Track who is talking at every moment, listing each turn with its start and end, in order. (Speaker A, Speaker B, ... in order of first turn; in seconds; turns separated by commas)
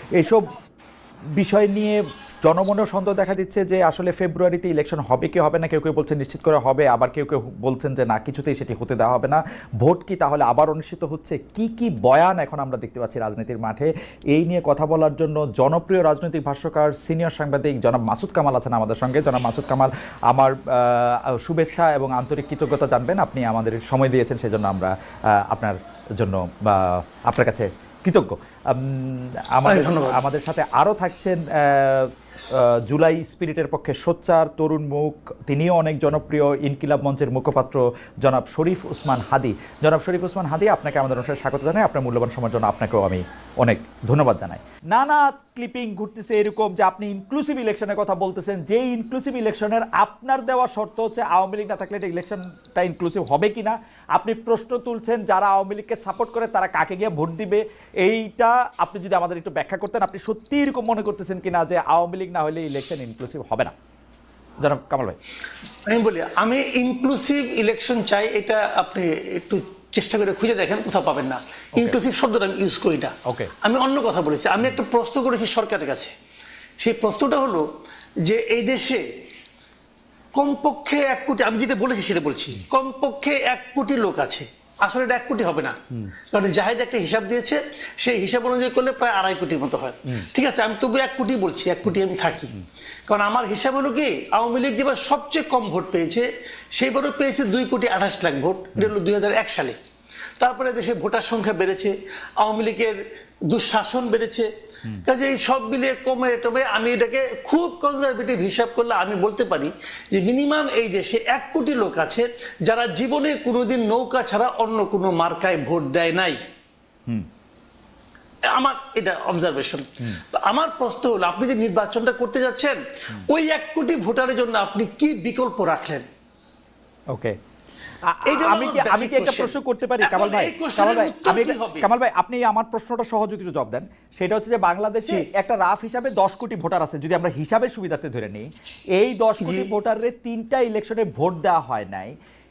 Speaker A: 0.2-0.5, Speaker A: 1.4-63.7, Speaker B: 29.6-30.2, Speaker A: 64.6-65.2, Speaker B: 65.9-76.1, Speaker A: 73.2-73.5, Speaker B: 76.8-77.7, Speaker B: 78.2-79.0, Speaker B: 80.3-92.5, Speaker B: 93.1-99.8, Speaker B: 100.4-104.5, Speaker B: 105.0-116.4, Speaker B: 118.5-126.0, Speaker A: 128.0-138.4, Speaker B: 128.2-131.9, Speaker A: 139.0-142.1, Speaker B: 139.4-139.7